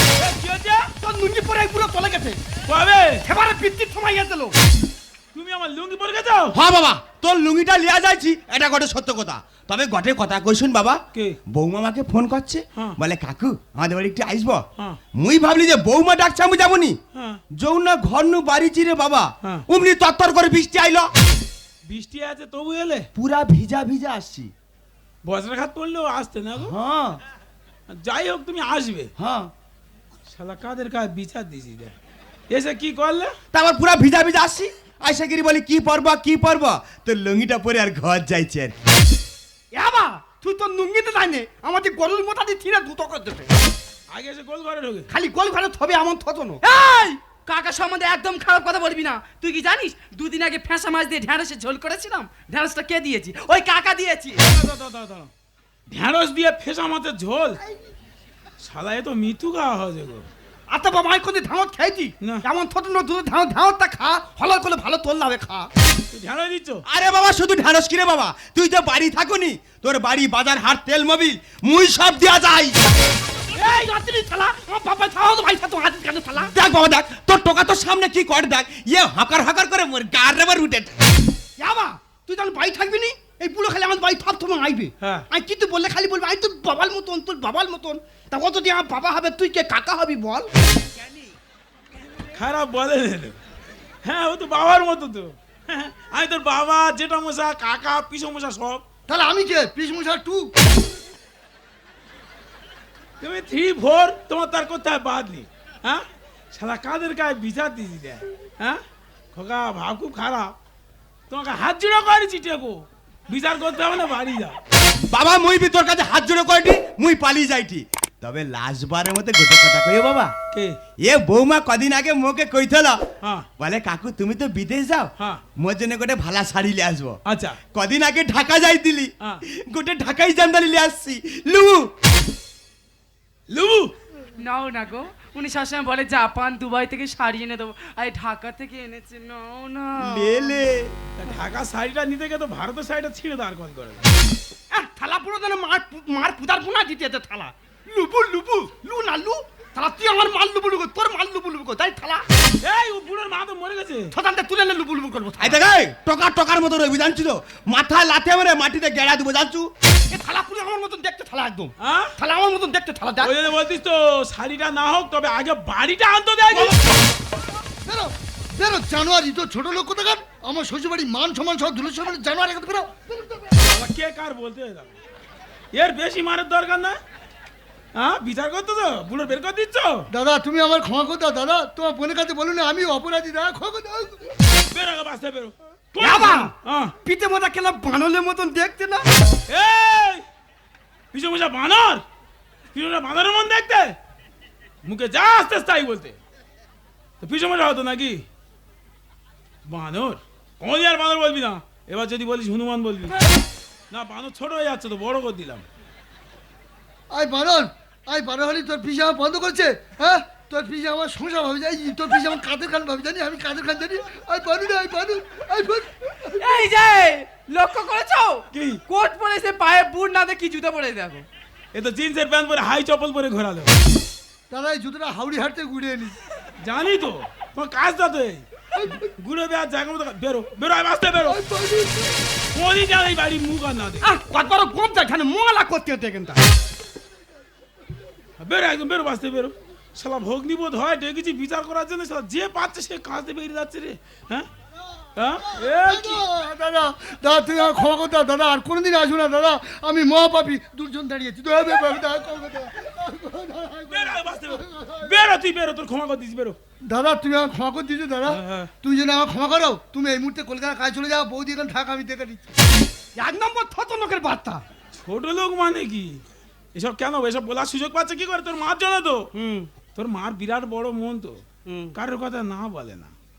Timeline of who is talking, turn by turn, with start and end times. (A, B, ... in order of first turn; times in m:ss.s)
0:00.2-0:00.9 A
0:00.9-0:02.4 B
0:02.7-0:03.2 A
0:03.2-0:04.5 B
0:05.3-0:06.6 A
0:06.5-0:14.6 C
0:15.1-0:17.0 C
0:17.1-0:17.4 A
0:17.6-0:21.1 C
0:21.8-0:23.1 A
0:23.2-0:24.5 C
0:25.2-0:26.8 A
0:26.6-0:27.2 C
0:27.9-0:29.1 A
0:29.2-0:29.5 C
0:30.3-0:31.9 A
0:32.5-0:33.3 A
0:33.5-0:38.7 C
0:39.7-0:43.5 B
0:44.1-0:45.1 A
0:45.1-0:47.2 B
0:47.4-0:54.4 D
0:54.4-0:55.3 A
0:55.9-0:57.6 A
0:58.6-1:00.3 A
1:00.7-1:05.7 B
1:06.1-1:06.8 A
1:06.8-1:12.8 C
1:13.5-1:16.5 B
1:16.4-1:20.9 C
1:21.6-1:30.5 B
1:25.0-1:25.2 A
1:32.3-1:33.4 A
1:34.0-1:38.8 A
1:39.1-1:40.5 E
1:43.2-1:48.8 A
1:49.3-1:50.5 A
1:51.3-1:54.6 A
1:55.1-2:00.3 C
2:01.0-2:03.0 C
2:03.2-2:03.5 A
2:03.6-2:07.2 C
2:07.2-2:07.6 A
2:07.7-2:11.9 C
2:13.5-2:13.9 A
2:14.4-2:20.5 D
2:20.0-2:20.9 C
2:21.2-2:24.0 A
2:24.7-2:32.2 B
2:32.6-2:34.1 A
2:34.1-2:35.6 B
2:35.4-2:39.7 C
2:40.1-2:43.4 B
2:41.8-2:42.1 A
2:43.2-2:46.8 A
2:47.8-2:53.6 E
2:53.6-2:54.9 A
2:55.7-2:57.0 A
2:57.9-3:00.1 A
3:00.1-3:04.3 E
3:04.7-3:06.9 A
3:06.0-3:06.5 B
3:07.0-3:09.0 B
3:09.5-3:10.2 A
3:11.1-3:12.0 A
3:12.7-3:14.0 A
3:14.8-3:16.2 A
3:17.2-3:18.2 A
3:19.6-3:23.2 A
3:23.9-3:25.6 A
3:27.1-3:36.4 E
3:36.4-3:41.2 D
3:38.5-3:38.8 A
3:41.7-3:43.7 A
3:44.5-3:46.2 E
3:46.6-3:51.4 A
3:48.8-3:49.1 E
3:51.2-3:52.2 E
3:52.5-3:54.1 A
3:54.0-3:56.4 B
3:58.4-4:04.5 A
4:05.2-4:06.2 A
4:05.5-4:15.1 E
4:13.9-4:16.6 A
4:16.9-4:22.4 E
4:18.3-4:18.7 A
4:23.2-4:24.6 B
4:24.9-4:26.2 A
4:26.7-4:29.3 A
4:29.3-4:29.7 B
4:29.9-4:31.4 A
4:31.6-4:31.9 B
4:31.9-4:33.1 A